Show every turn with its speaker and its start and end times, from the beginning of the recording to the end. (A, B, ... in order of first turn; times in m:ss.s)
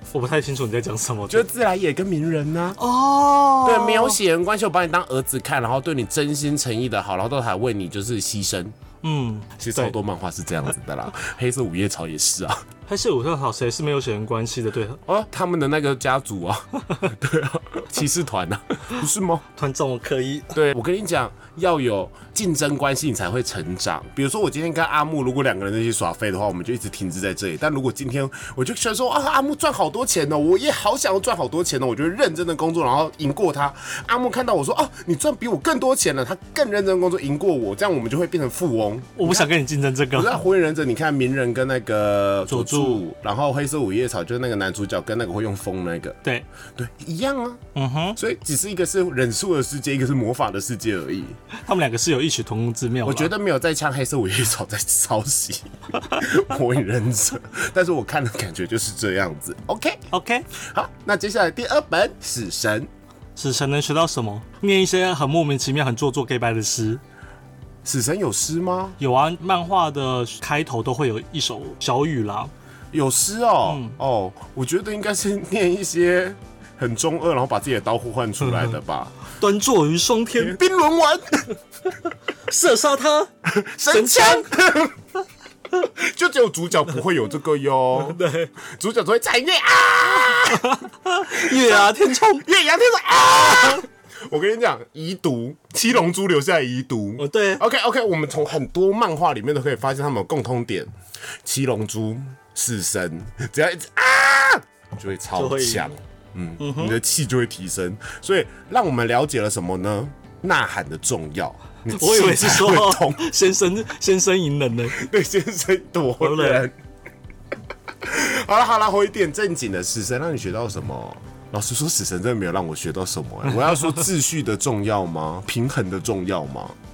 0:00.1-0:01.5 A
0:01.3-0:02.8 B
0:02.8-0:04.2 A
0:03.6-0:08.8 B
0:09.0-0:09.9 A
0:09.6-0:12.6 B
0:12.9-0:15.0 A
0:15.1-0:19.4 B
0:19.6-0:20.5 A
0:20.5-0:39.5 B
0:39.2-0:40.4 A
0:40.1-0:46.2 B
0:42.5-0:43.0 A
0:46.7-0:47.6 B
0:47.8-0:48.2 A
0:48.2-0:51.4 B
0:51.6-0:53.3 A
0:53.0-1:00.0 B
1:00.1-1:00.5 A
1:00.5-1:02.9 B
1:03.4-1:07.0 A
1:07.8-1:09.0 B
1:09.0-1:12.5 A
1:12.9-1:19.1 B
1:13.7-1:14.0 A
1:19.3-1:20.6 A
1:20.4-1:21.6 B
1:22.5-1:23.3 A
1:23.4-1:25.0 B
1:23.9-1:24.5 A
1:25.7-1:40.9 B
1:28.0-1:28.5 A
1:30.5-1:32.5 A
1:37.2-1:37.6 A
1:41.4-1:53.3 B
1:45.4-1:45.9 A
1:46.6-1:47.0 A
1:51.9-1:55.0 A
1:54.9-1:56.7 B
1:56.2-1:56.7 A
1:58.0-2:06.8 B